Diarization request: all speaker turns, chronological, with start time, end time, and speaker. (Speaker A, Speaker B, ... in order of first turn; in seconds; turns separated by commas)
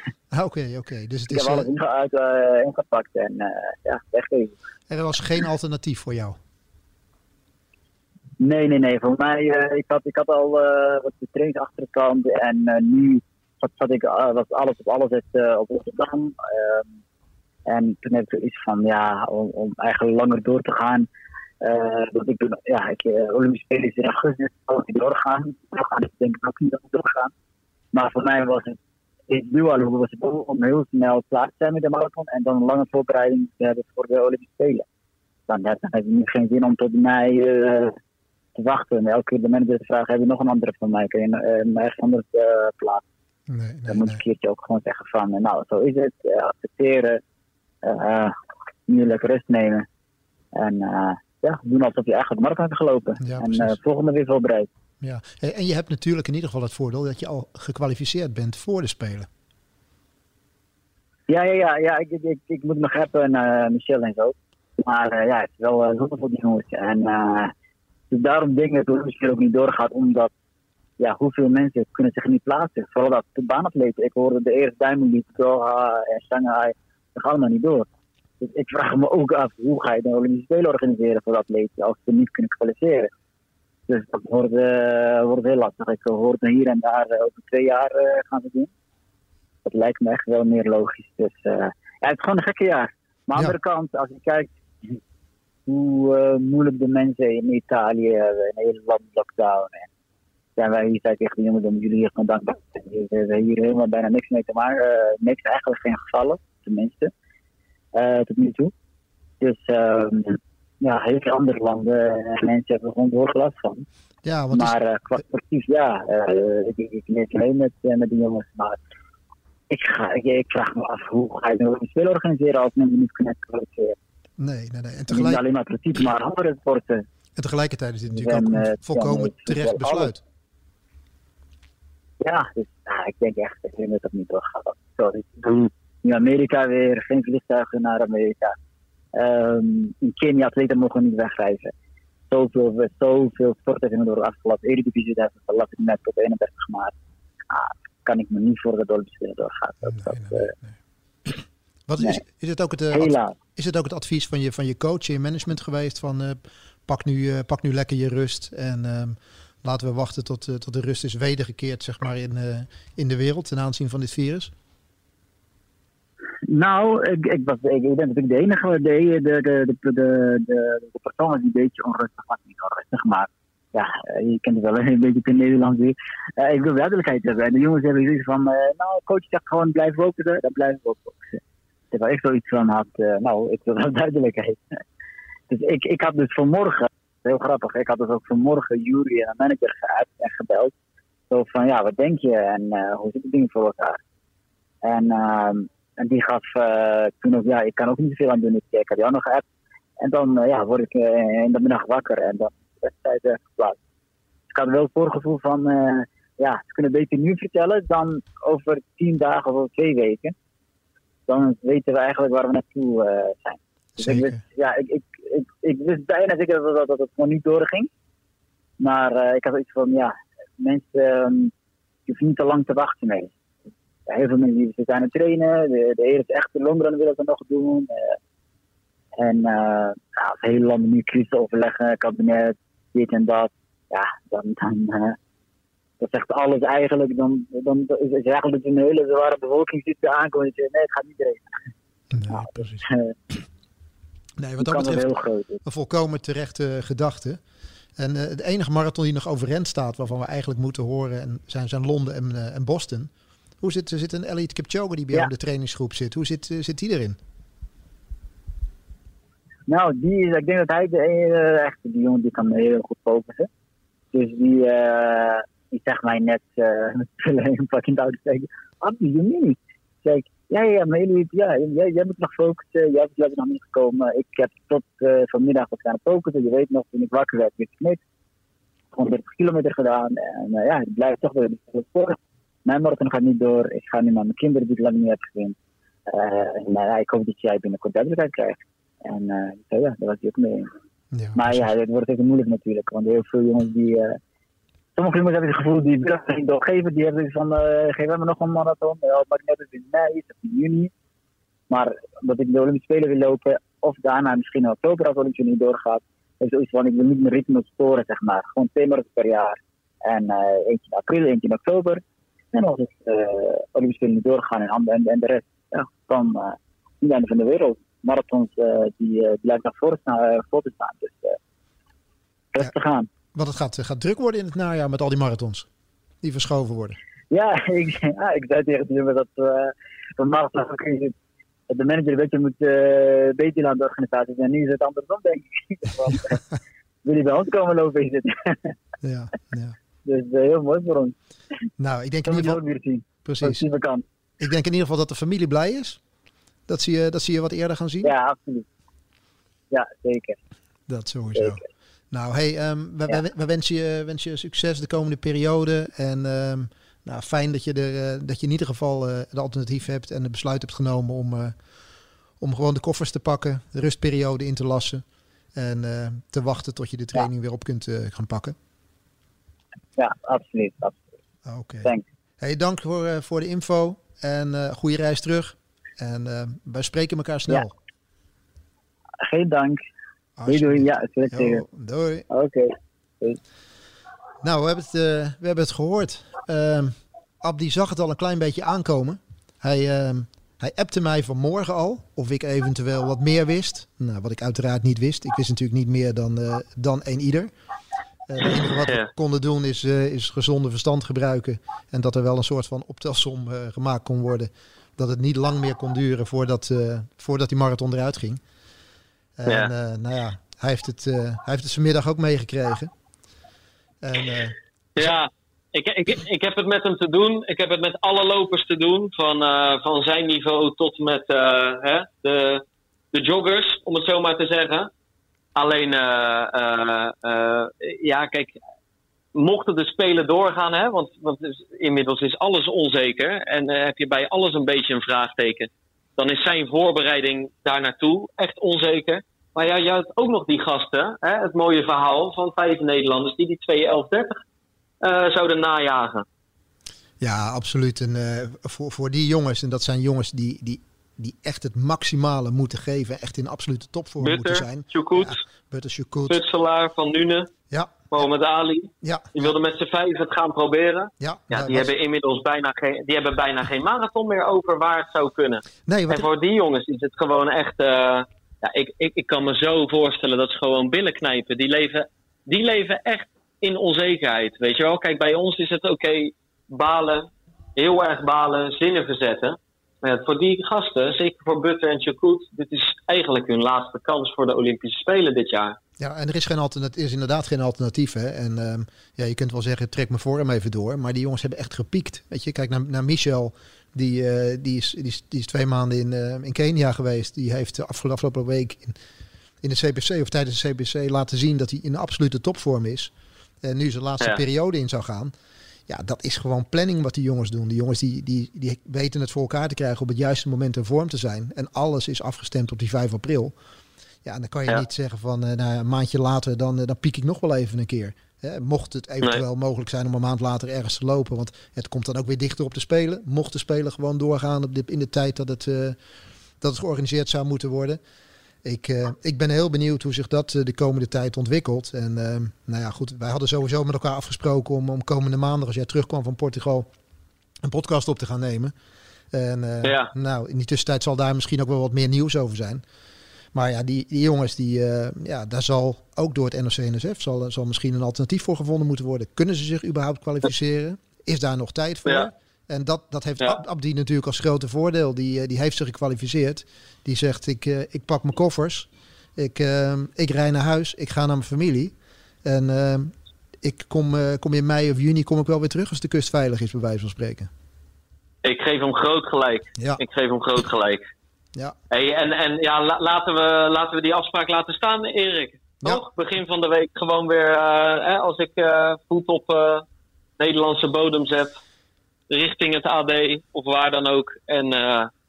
Speaker A: 0.3-1.7, Speaker B: 1.3-4.6, Speaker A: 4.9-6.4, Speaker B: 8.4-16.8, Speaker B: 17.7-21.1, Speaker B: 21.6-27.3, Speaker B: 27.9-28.8, Speaker B: 29.3-34.8, Speaker B: 35.5-37.9, Speaker B: 38.5-43.0, Speaker A: 43.5-44.2, Speaker B: 43.9-47.2, Speaker B: 47.8-48.3, Speaker B: 48.9-49.9, Speaker B: 50.5-54.7, Speaker A: 53.2-53.7, Speaker A: 55.0-59.3, Speaker B: 61.3-67.5, Speaker B: 68.1-70.3, Speaker B: 71.0-77.9, Speaker B: 78.4-83.1, Speaker B: 83.9-88.7, Speaker B: 89.6-95.0, Speaker B: 95.7-99.8, Speaker B: 100.6-107.1, Speaker B: 107.9-108.7, Speaker B: 109.4-113.8, Speaker A: 114.2-114.7, Speaker B: 114.5-118.8, Speaker B: 119.7-124.0, Speaker A: 124.4-125.4, Speaker B: 125.1-127.0, Speaker A: 127.3-130.2, Speaker B: 128.1-130.1, Speaker B: 132.2-138.6, Speaker B: 139.1-141.7, Speaker B: 142.3-146.9, Speaker B: 147.5-150.5, Speaker A: 149.9-150.6, Speaker A: 151.2-164.5, Speaker B: 152.9-153.4, Speaker B: 166.5-181.4, Speaker B: 181.9-184.6, Speaker B: 185.5-190.7, Speaker B: 191.3-194.0, Speaker B: 194.8-199.4, Speaker B: 200.0-203.8, Speaker B: 204.5-210.3, Speaker B: 211.3-217.9, Speaker A: 214.0-214.4, Speaker B: 218.8-221.5, Speaker B: 222.1-223.3, Speaker B: 224.1-228.2, Speaker B: 229.2-235.2, Speaker B: 236.0-241.6, Speaker A: 242.1-242.8, Speaker B: 242.3-243.1, Speaker A: 244.4-245.0, Speaker B: 244.6-245.6, Speaker A: 245.6-247.4, Speaker A: 248.0-253.1, Speaker A: 253.6-257.2, Speaker B: 259.7-263.5, Speaker B: 264.1-278.0, Speaker B: 278.9-285.6, Speaker B: 286.1-290.7, Speaker A: 291.1-291.7, Speaker B: 291.4-294.2, Speaker B: 294.9-300.9, Speaker B: 301.7-312.0, Speaker B: 312.5-321.4, Speaker B: 322.5-323.1, Speaker A: 323.3-325.7, Speaker A: 326.2-327.0, Speaker B: 327.3-331.1, Speaker B: 331.7-336.4, Speaker B: 337.0-338.7, Speaker A: 339.0-339.8, Speaker B: 340.1-341.1, Speaker A: 341.8-342.6, Speaker B: 342.3-344.0, Speaker A: 343.2-343.6, Speaker A: 344.4-346.0, Speaker A: 346.7-348.1, Speaker B: 348.0-348.7, Speaker B: 349.7-350.4, Speaker A: 350.9-361.5, Speaker B: 351.4-351.6, Speaker A: 362.4-365.0, Speaker A: 365.5-368.6, Speaker B: 370.0-371.0, Speaker A: 371.4-377.7, Speaker B: 379.2-379.8, Speaker A: 380.4-382.3, Speaker B: 380.5-381.6, Speaker B: 382.3-383.4, Speaker A: 384.4-397.5, Speaker A: 398.3-408.4, Speaker A: 409.4-412.9, Speaker C: 409.5-409.7, Speaker A: 414.0-415.1, Speaker C: 414.9-424.9, Speaker C: 425.6-428.6, Speaker C: 429.3-444.4, Speaker C: 445.0-446.2, Speaker A: 447.2-456.4, Speaker C: 454.2-455.4, Speaker C: 456.2-457.5, Speaker A: 457.7-458.2, Speaker C: 458.1-485.8, Speaker A: 459.0-459.5, Speaker A: 461.2-461.9, Speaker A: 465.9-466.3, Speaker A: 486.0-499.0, Speaker A: 499.6-503.1, Speaker A: 503.6-505.3, Speaker A: 505.9-513.5, Speaker A: 514.2-526.0, Speaker A: 526.6-528.0, Speaker A: 528.6-536.9, Speaker A: 537.6-538.7, Speaker A: 539.3-542.8, Speaker C: 539.8-540.1, Speaker A: 543.5-561.9, Speaker A: 562.4-567.5, Speaker C: 568.4-571.0, Speaker A: 569.8-570.0, Speaker C: 571.9-579.8, Speaker C: 580.4-581.6, Speaker C: 582.3-585.1